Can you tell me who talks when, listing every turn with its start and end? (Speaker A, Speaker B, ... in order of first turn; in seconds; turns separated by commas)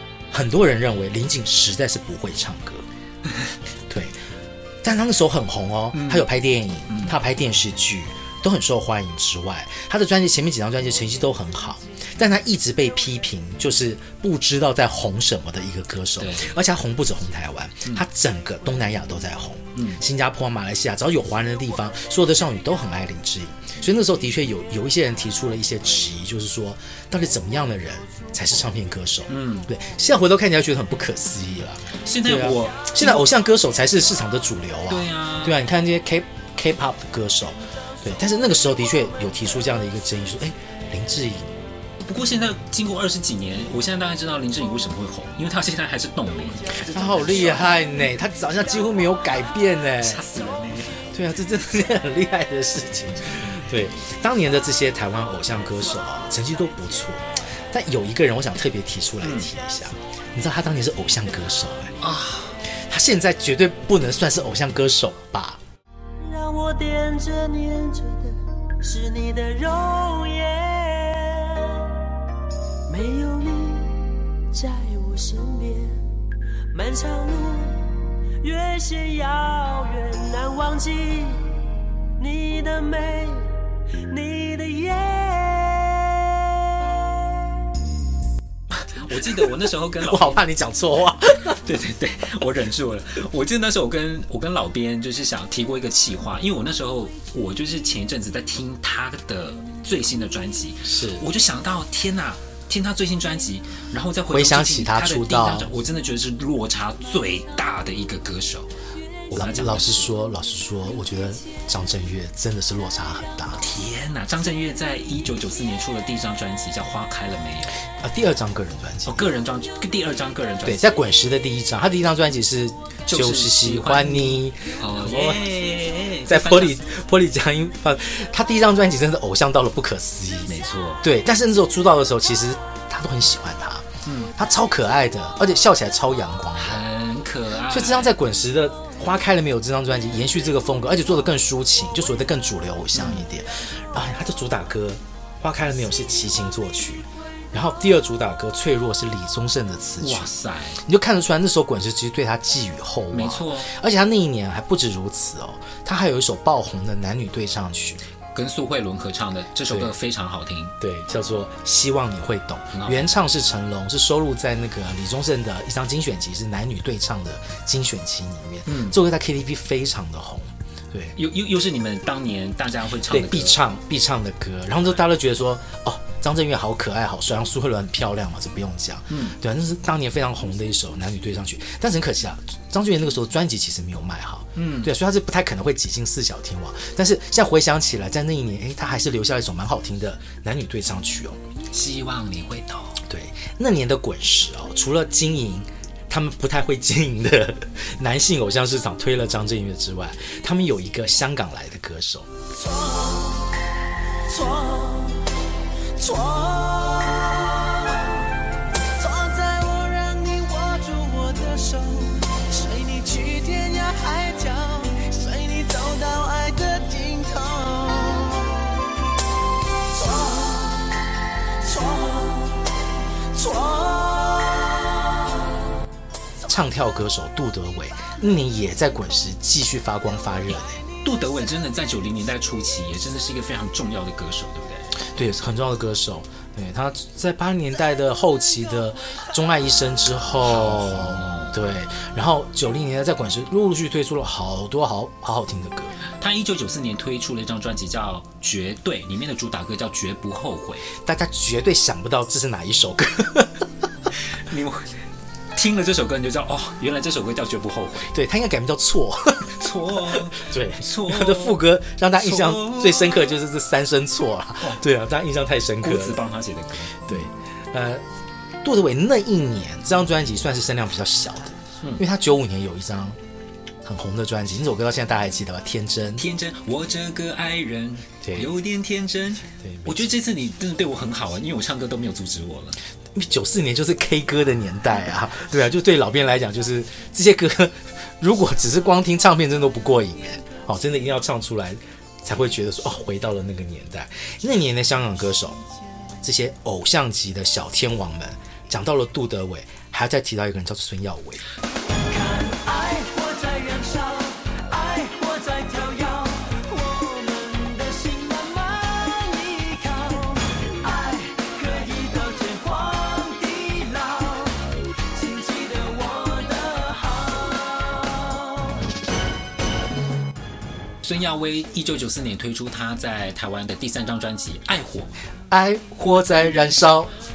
Speaker A: 0.3-2.9, Speaker A: 3.9-4.1, Speaker A: 4.8-41.5, Speaker B: 5.9-6.3, Speaker B: 6.9-7.2, Speaker B: 16.2-16.5, Speaker B: 19.7-20.0, Speaker B: 29.3-29.7, Speaker B: 32.0-33.3, Speaker B: 34.9-35.6, Speaker B: 42.0-47.8, Speaker A: 46.7-50.2, Speaker B: 49.9-51.0, Speaker A: 51.0-62.0, Speaker B: 59.2-59.5, Speaker B: 62.0-62.6, Speaker A: 62.6-65.6, Speaker C: 66.2-71.9, Speaker C: 72.9-76.0, Speaker C: 76.7-81.5, Speaker C: 82.2-83.5, Speaker C: 84.0-87.3, Speaker B: 88.8-90.4, Speaker A: 90.0-91.6, Speaker B: 91.4-108.7, Speaker A: 100.8-101.2, Speaker A: 104.3-105.7, Speaker B: 109.3-110.1, Speaker A: 109.3-113.6, Speaker B: 113.6-117.8, Speaker A: 118.0-119.3, Speaker B: 119.0-120.8, Speaker A: 120.6-125.5, Speaker B: 123.1-126.8, Speaker A: 126.2-136.8, Speaker B: 130.5-131.0, Speaker B: 134.0-134.3, Speaker B: 136.6-138.1, Speaker A: 137.7-150.3, Speaker B: 142.9-143.2, Speaker B: 150.0-150.8, Speaker A: 150.8-158.0, Speaker B: 153.1-153.7, Speaker B: 158.3-160.7, Speaker A: 160.8-171.2, Speaker B: 162.7-163.1, Speaker B: 168.7-168.9, Speaker B: 171.2-173.6, Speaker A: 173.1-191.4, Speaker B: 179.1-179.3, Speaker B: 184.6-184.9, Speaker B: 191.7-193.0, Speaker A: 193.0-202.3, Speaker C: 202.5-203.5, Speaker C: 204.3-205.3, Speaker C: 205.9-208.3, Speaker C: 208.9-218.7, Speaker C: 219.9-221.1, Speaker C: 221.6-222.7, Speaker C: 223.3-225.2, Speaker A: 226.4-230.8, Speaker B: 231.0-234.9, Speaker A: 235.0-246.0, Speaker B: 240.4-241.5, Speaker B: 246.1-250.8, Speaker A: 250.9-253.6, Speaker B: 254.3-254.9, Speaker B: 255.5-258.1, Speaker A: 258.1-266.2, Speaker B: 259.6-261.6, Speaker B: 262.1-263.2, Speaker B: 265.8-267.0, Speaker A: 267.1-268.0, Speaker A: 268.6-273.2, Speaker A: 273.8-276.2, Speaker B: 276.2-282.8, Speaker A: 278.2-278.5, Speaker A: 279.6-280.1, Speaker A: 283.1-295.6, Speaker A: 296.2-301.4, Speaker C: 301.9-318.8, Speaker B: 321.0-325.1, Speaker A: 325.5-327.1